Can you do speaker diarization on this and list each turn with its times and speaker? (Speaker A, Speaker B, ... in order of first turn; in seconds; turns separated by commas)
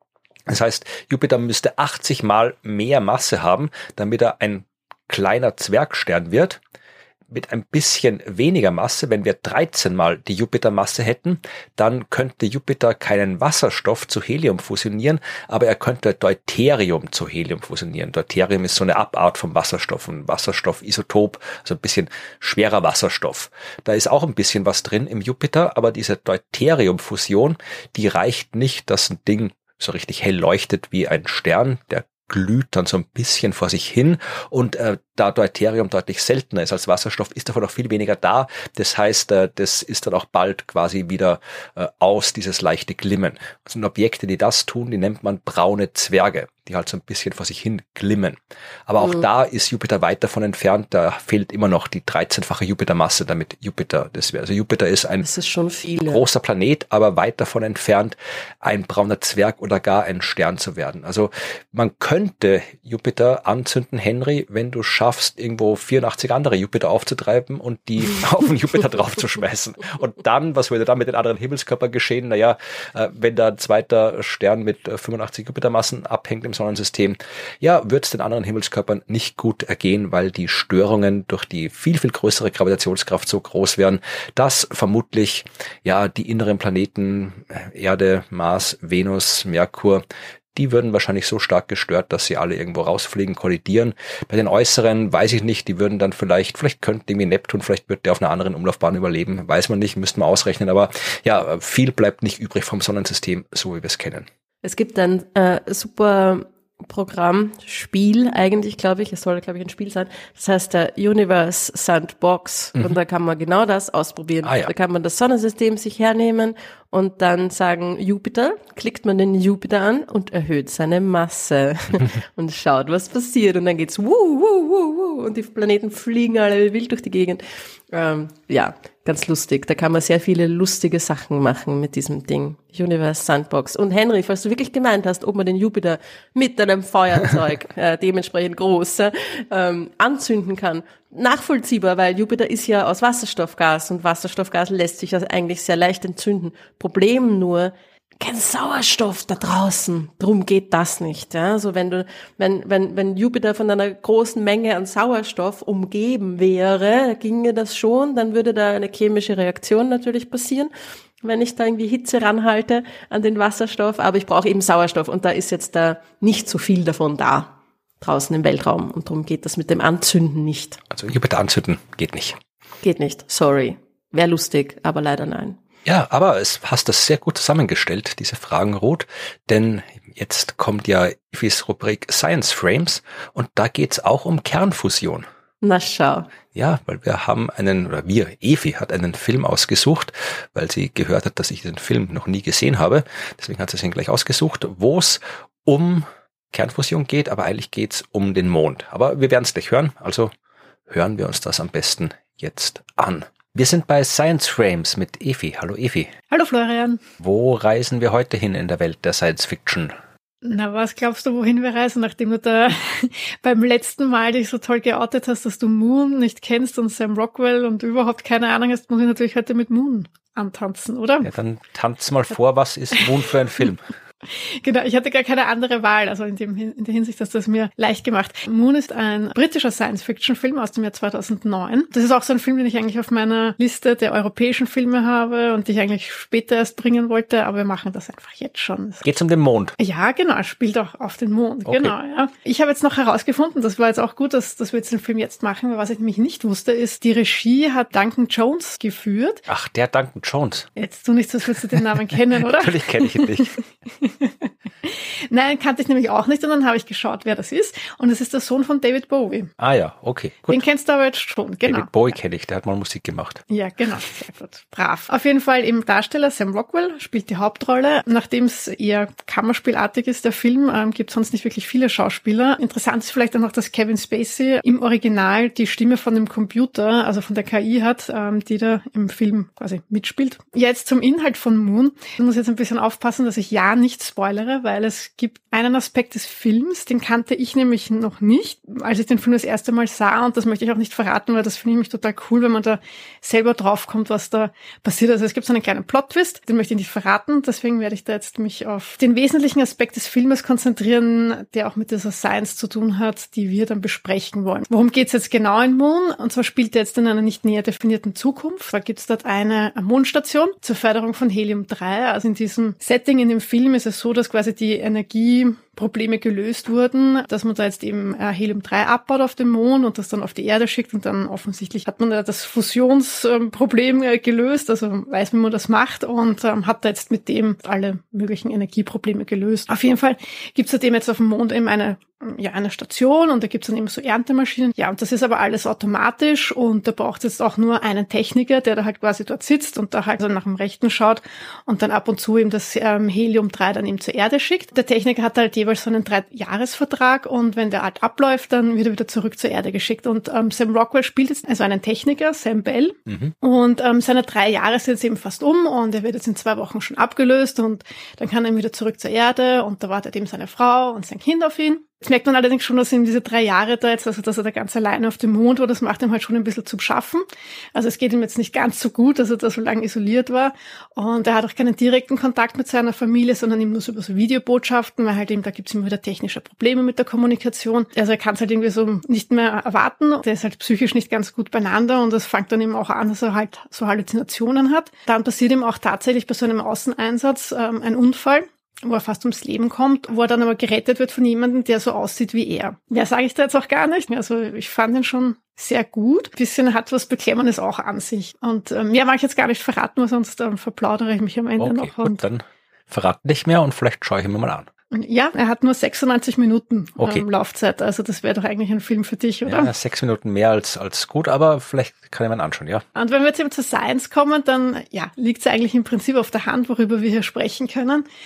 Speaker A: 0.5-6.6, Speaker A: 7.3-55.2, Speaker B: 55.2-56.2, Speaker A: 56.0-90.0, Speaker A: 90.5-104.3, Speaker B: 104.6-170.8, Speaker A: 114.4-114.7, Speaker A: 170.9-172.4, Speaker B: 172.8-175.6, Speaker A: 175.8-185.2, Speaker B: 185.6-186.3, Speaker A: 186.5-200.3, Speaker A: 200.9-206.1, Speaker C: 206.3-207.0, Speaker A: 207.2-209.9, Speaker C: 210.4-221.3, Speaker A: 221.2-223.9, Speaker C: 224.4-239.0, Speaker A: 239.0-239.8, Speaker C: 239.8-249.4, Speaker A: 241.7-241.9, Speaker A: 249.5-250.7, Speaker C: 250.8-259.5, Speaker A: 252.4-253.6, Speaker A: 259.6-260.6, Speaker C: 260.5-261.9, Speaker A: 261.6-263.4, Speaker C: 263.5-402.2, Speaker A: 353.1-353.3, Speaker A: 401.6-404.7, Speaker C: 404.9-409.7, Speaker A: 407.0-407.2, Speaker A: 409.5-412.8, Speaker C: 412.9-418.0